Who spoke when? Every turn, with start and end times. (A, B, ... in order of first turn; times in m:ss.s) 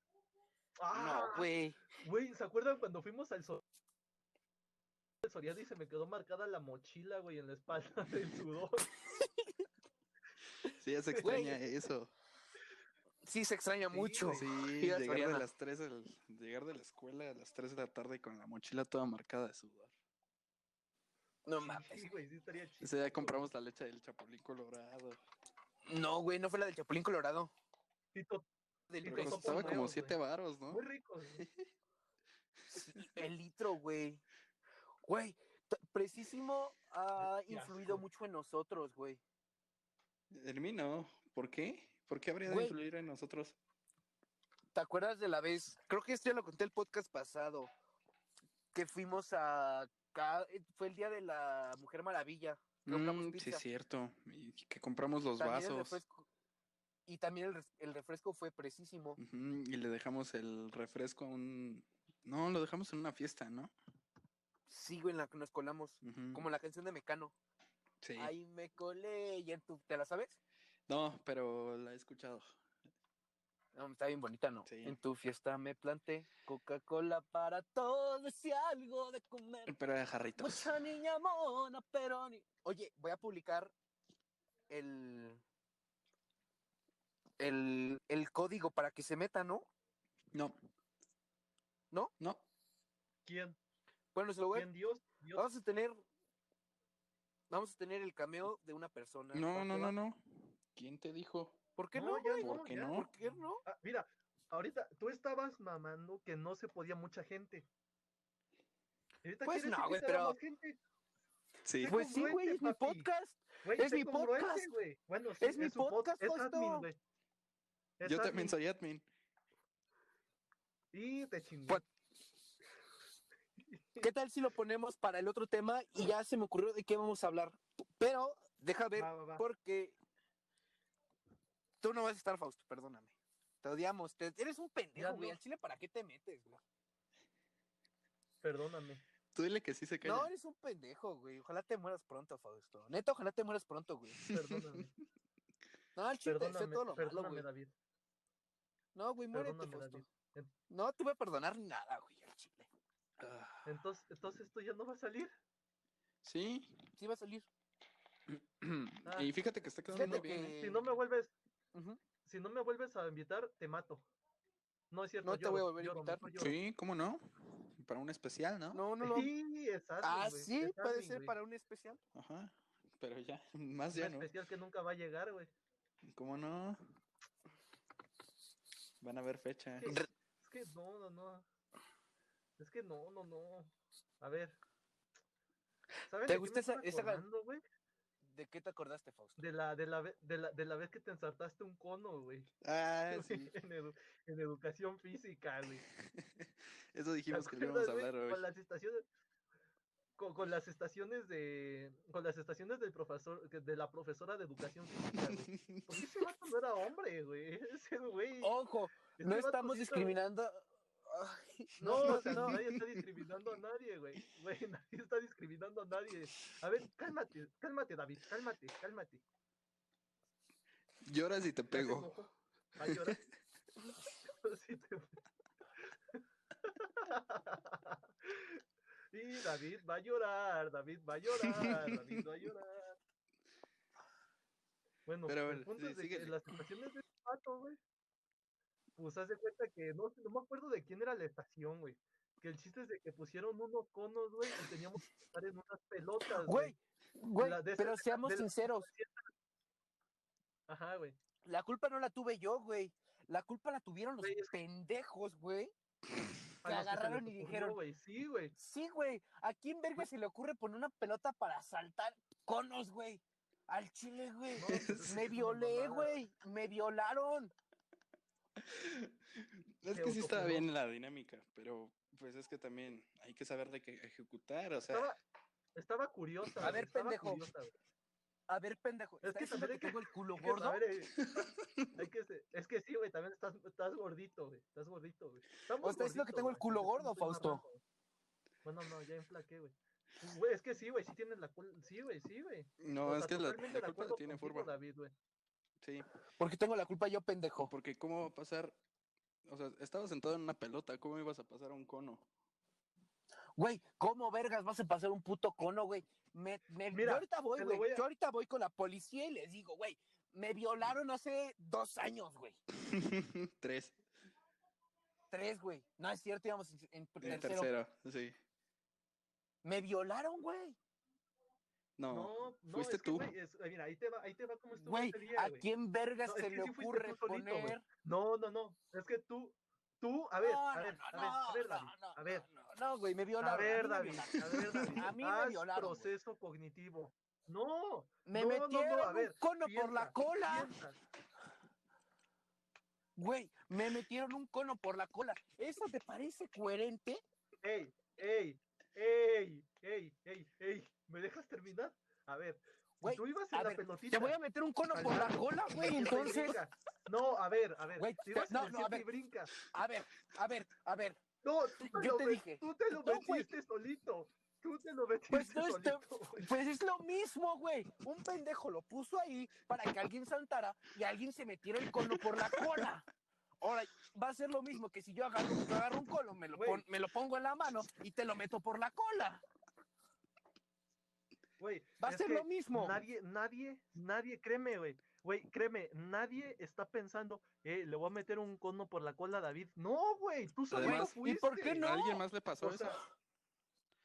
0:00.8-0:01.5 A
0:00.9-0:01.8 B
0:02.0-0:03.6 A
0:05.2-0:08.9 A
0:10.8-0:12.1 C
0:11.1-0:11.6 A
0:11.2-0:11.6 B
0:13.2-0:15.4 B
0:13.9-0:14.5 A
0:14.3-0:19.9 C
0:21.5-0:22.0 B
0:21.7-0:23.5 A
0:22.8-0:25.2 C
0:25.9-0:27.5 B
0:28.1-0:28.4 A
0:28.9-0:29.9 B
0:29.0-0:30.2 A
0:29.0-0:30.8 C
0:30.7-0:31.4 A
0:31.4-0:31.7 C
0:32.7-0:34.2 B
0:32.7-0:33.0 C
0:35.0-0:39.2 B
0:37.2-0:38.0 A
0:40.3-0:43.6 C
0:42.5-0:42.8 B
0:44.7-0:47.7 B
0:48.7-0:53.6 B
0:52.9-0:56.0 C
0:55.4-0:56.3 B
0:57.1-0:59.2 B
0:59.2-1:03.7 C
1:04.7-1:07.3 B
1:06.0-1:06.5 C
1:08.0-1:08.3 C
1:08.2-1:10.4 B
1:10.9-1:12.5 C
1:13.8-1:19.8 B
1:14.7-1:15.0 C
1:19.7-1:20.7 C
1:20.4-1:23.7 B
1:24.7-1:25.4 B
1:27.4-1:29.7 B
1:32.2-1:32.4 C
1:33.3-1:33.6 A
1:34.1-1:34.7 B
1:34.5-1:35.5 A
1:35.4-1:36.0 B
1:37.5-1:39.9 B
1:39.3-1:41.6 C
1:41.8-1:43.6 B
1:41.9-1:47.7 A
1:42.4-1:43.1 C
1:49.2-1:50.8 A
1:49.4-1:50.4 B
1:51.6-1:52.0 C
1:51.8-1:53.1 A
1:51.9-1:54.7 B
1:53.6-1:57.0 A
1:55.4-1:56.9 B
1:58.0-1:58.6 A
1:58.0-1:59.1 C
2:00.9-2:01.8 A
2:03.7-2:04.1 A
2:04.0-2:10.0 B
2:09.0-2:09.4 A
2:11.8-2:16.6 B
2:15.0-2:15.4 A
2:18.4-2:19.0 A
2:19.3-2:20.3 C
2:20.0-2:24.2 B
2:24.2-2:24.9 C
2:24.3-2:24.9 A
2:26.0-2:27.5 B
2:26.3-2:27.7 A
2:29.0-2:30.0 B
2:29.3-2:30.5 A
2:30.7-2:32.7 B
2:33.2-2:33.7 C
2:33.6-2:35.3 A
2:36.2-2:36.9 C
2:37.0-2:37.5 B
2:38.3-2:40.6 C
2:39.1-2:39.3 A
2:39.9-2:40.8 B
2:39.9-2:41.3 A
2:41.7-2:42.0 B
2:42.2-2:44.1 A
2:44.9-2:46.6 A
2:45.2-2:46.3 B
2:46.4-2:47.2 C
2:47.8-2:48.8 C
2:48.7-2:49.3 B
2:49.0-2:51.3 A
2:50.0-2:52.0 B
2:52.1-2:54.3 C
2:53.9-2:55.5 A
2:56.1-2:56.8 C
2:59.0-3:00.1 C
2:59.8-3:01.5 A
3:02.6-3:04.6 A
3:06.1-3:07.6 A
3:06.3-3:07.2 B
3:08.2-3:09.4 B
3:09.4-3:12.5 A
3:12.6-3:13.5 C
3:13.1-3:15.8 A
3:16.1-3:18.4 C
3:17.3-3:19.0 A
3:20.2-3:28.6 A
3:25.2-3:26.0 C
3:28.4-3:32.6 B
3:29.1-3:30.2 A
3:31.8-3:39.2 A
3:31.8-3:33.0 C
3:41.0-3:42.1 C
3:41.7-3:43.2 A
3:42.8-3:43.2 C
3:44.3-3:45.1 A
3:46.1-3:48.6 A
3:49.1-3:53.0 A
3:51.4-3:52.2 C
3:55.1-3:57.8 A
3:55.3-3:56.4 C
3:59.0-4:06.8 A
4:06.4-4:08.9 B
4:07.4-4:09.3 A
4:10.7-4:11.2 A
4:11.4-4:15.7 B
4:14.2-4:14.5 A
4:16.6-4:18.6 A
4:16.6-4:17.8 B
4:18.6-4:27.5 B
4:24.6-4:26.1 A
4:24.6-4:25.2 C
4:28.6-4:35.1 C
4:29.9-4:30.7 A
4:34.9-4:35.2 A
4:35.8-4:37.7 A
4:36.6-4:37.4 B
4:38.5-4:40.8 B
4:39.2-4:41.2 A
4:41.2-4:41.9 C
4:42.0-4:47.8 A
4:45.8-4:47.6 B
4:48.6-4:55.1 A
4:52.8-4:54.7 C
4:55.8-4:56.1 C
4:56.4-4:57.7 B
4:57.6-4:58.8 C
4:59.5-5:02.3 C
5:03.6-5:12.6 B
5:06.9-5:08.0 A
5:12.8-5:14.0 C
5:15.3-5:17.7 B
5:17.2-5:18.4 C
5:19.6-5:20.8 B
5:22.0-5:23.3 C
5:22.1-5:25.7 A
5:24.8-5:27.8 B
5:26.3-5:32.5 A
5:30.4-5:36.1 B
5:33.4-5:41.0 A
5:34.4-5:34.9 C
5:38.3-5:40.7 B
5:43.2-5:47.2 B
5:47.6-5:54.4 A
5:53.0-5:56.6 B
5:54.9-5:59.5 A
5:58.0-5:59.1 B
5:59.7-6:01.2 B
6:01.4-6:06.5 A
6:01.8-6:03.5 B
6:05.3-6:13.1 B
6:12.0-6:12.9 C
6:13.6-6:19.4 B
6:16.5-6:16.8 A
6:21.6-6:31.8 A
6:22.0-6:23.0 B
6:30.7-6:31.1 C
6:30.8-6:32.2 B
6:31.8-6:33.0 C
6:32.6-6:33.0 A